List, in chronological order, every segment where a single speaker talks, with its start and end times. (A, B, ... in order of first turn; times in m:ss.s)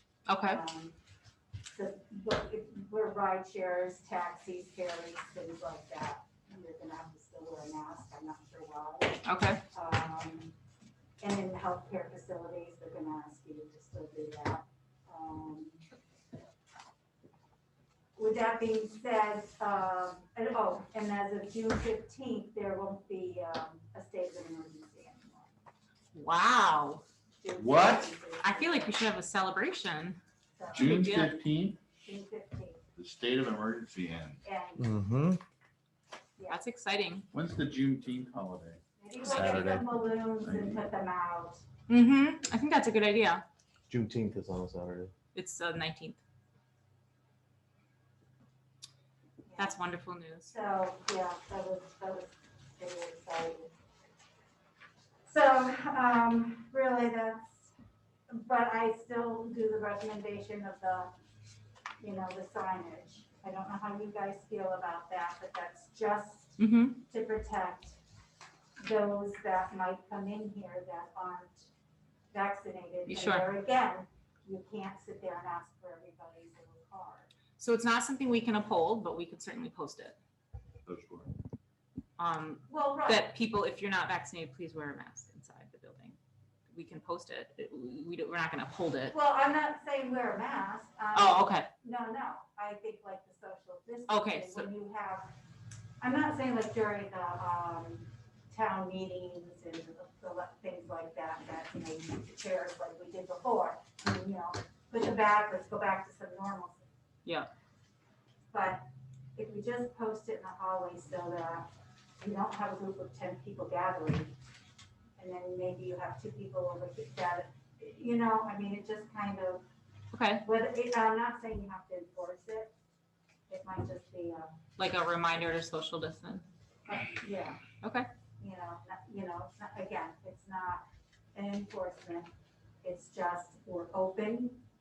0:00.3-0:00.6 A
0:00.4-0:01.0 B
0:01.7-0:10.6 B
0:09.2-0:09.6 A
0:11.2-0:15.8 B
0:18.2-0:25.5 B
0:26.1-0:27.0 A
0:27.4-0:29.0 B
0:27.6-0:28.1 C
0:28.4-0:30.2 A
0:30.6-0:31.1 B
0:30.7-0:31.3 A
0:30.7-0:31.8 C
0:32.0-0:32.8 B
0:33.0-0:34.4 C
0:34.4-0:34.9 B
0:34.8-0:35.4 D
0:36.5-0:37.3 A
0:37.3-0:38.8 C
0:39.0-0:41.6 B
0:39.3-0:39.9 D
0:40.4-0:40.8 C
0:41.9-0:43.4 A
0:43.9-0:45.1 D
0:45.3-0:46.2 A
0:49.5-0:49.8 B
0:49.6-0:50.5 A
0:50.5-0:53.7 B
0:55.2-0:57.7 B
0:58.3-1:01.1 B
1:02.0-1:08.0 B
1:06.6-1:07.0 A
1:08.8-1:11.7 B
1:12.3-1:17.3 B
1:13.1-1:13.4 A
1:17.6-1:20.2 A
1:20.9-1:21.3 C
1:22.2-1:26.2 A
1:22.7-1:23.3 B
1:26.7-1:29.1 A
1:29.1-1:35.3 B
1:31.1-1:31.7 A
1:34.1-1:34.7 A
1:36.0-1:46.8 B
1:48.5-1:51.7 B
1:52.2-1:54.3 B
1:55.2-1:59.6 B
2:00.1-2:00.4 A
2:00.4-2:02.7 B
2:03.5-2:04.6 B
2:04.8-2:06.4 A
2:06.9-2:07.6 B
2:07.8-2:08.1 A
2:08.4-2:12.3 B
2:12.8-2:14.6 B